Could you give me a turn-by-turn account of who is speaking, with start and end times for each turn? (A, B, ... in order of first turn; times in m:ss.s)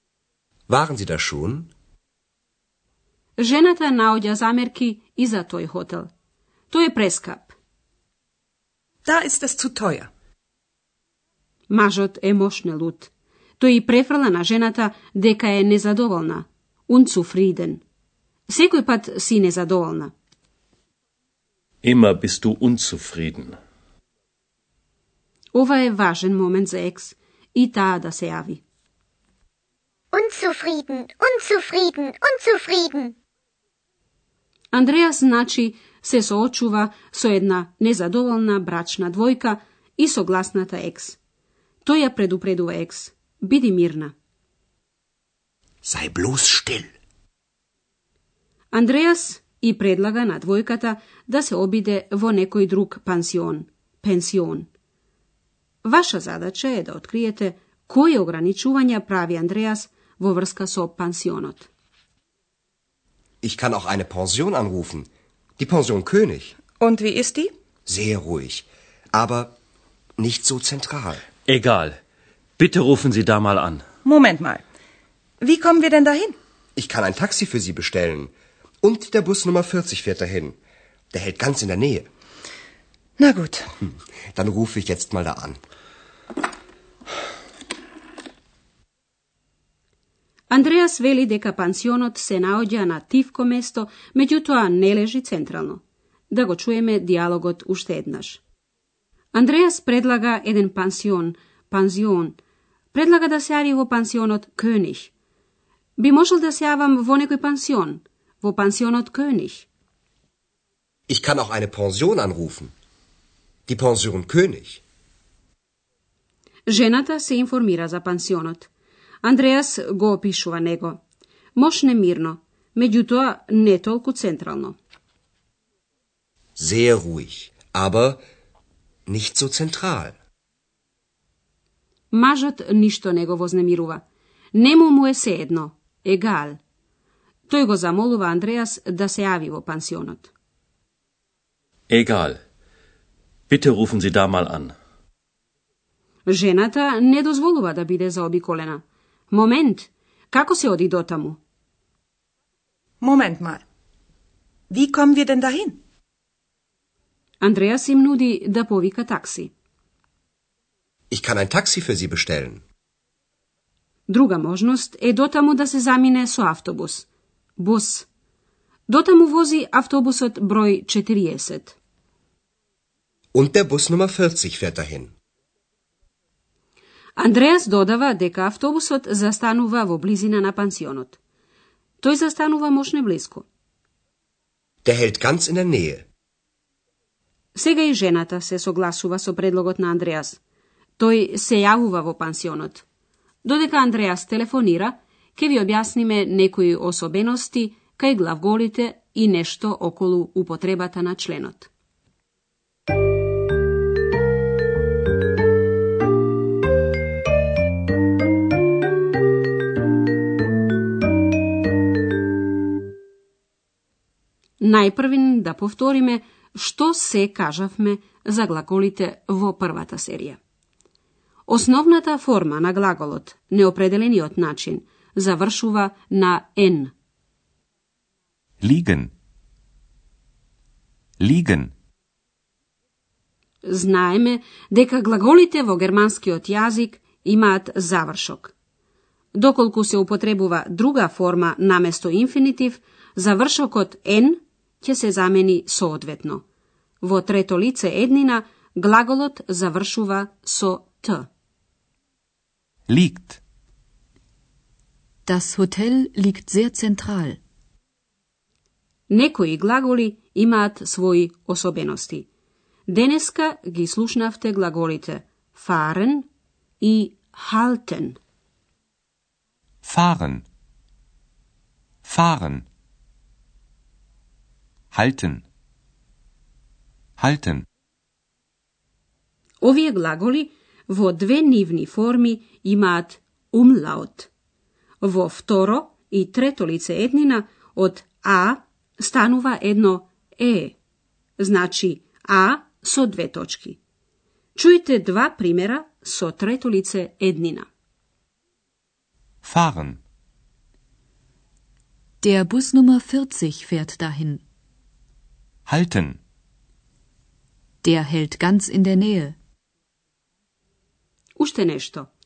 0:00.7-0:01.7 A
0:03.4-0:06.1 B
0:06.7-0:07.6 B
0:09.0-0:10.1 C
0:11.7-0:17.8 B
0:18.5-0:20.1 B
0:21.8-0:23.6 D
0:25.5-0:28.6 B
0:30.1-0:33.1 E
0:34.7-0:41.2 B
0:41.8-0:44.1 B
0:45.8-0:46.9 A
0:48.7-0:54.7 B
0:55.8-1:01.7 B
1:03.4-1:05.1 A
1:05.6-1:06.6 A
1:06.8-1:07.5 C
1:07.9-1:09.6 A
1:10.2-1:11.2 A
1:11.5-1:11.9 D
1:12.6-1:13.8 D
1:14.0-1:14.6 C
1:15.4-1:16.4 C
1:16.8-1:18.3 A
1:18.8-1:20.6 A
1:21.1-1:22.1 A
1:23.2-1:23.7 C
1:24.3-1:25.6 A
1:30.5-1:38.4 B
1:39.3-1:42.4 B
1:42.9-1:45.1 B
1:46.0-1:49.7 B
1:51.1-1:52.7 A
1:53.7-1:54.8 A
1:56.7-1:58.7 B
1:59.2-2:01.0 B
2:01.6-2:04.8 B
2:06.6-2:08.2 A
2:09.1-2:10.1 A
2:12.1-2:16.6 B
2:17.5-2:20.3 B
2:21.9-2:22.4 D
2:23.5-2:24.7 D
2:26.3-2:31.4 B
2:33.0-2:33.6 C
2:34.7-2:35.8 C
2:37.4-2:39.5 B
2:41.1-2:42.6 A
2:44.1-2:47.1 B
2:47.6-2:48.1 B
2:48.9-2:51.8 B
2:53.3-2:55.1 A
2:57.2-3:01.2 B
3:02.0-3:03.4 B
3:04.8-3:06.0 A
3:07.6-3:10.4 B
3:11.0-3:12.8 B
3:13.4-3:21.7 B
3:34.6-3:40.4 B
3:41.5-3:46.9 B
3:48.6-3:49.1 F
3:51.2-3:51.7 F
3:53.6-3:58.5 B
3:59.4-4:06.4 B
4:07.0-4:11.3 B
4:12.9-4:13.4 F
4:15.3-4:17.4 G
4:19.1-4:22.3 B
4:22.9-4:26.3 B
4:26.8-4:28.2 B
4:29.8-4:30.4 F
4:32.0-4:32.7 F
4:34.9-4:35.4 F
4:37.2-4:37.7 F
4:39.6-4:44.3 B
4:45.0-4:50.8 B
4:51.4-4:53.8 B
4:54.6-4:57.7 B
4:59.4-5:00.0 F
5:02.2-5:04.4 G
5:05.7-5:06.2 F
5:07.8-5:09.4 G
5:11.4-5:12.1 B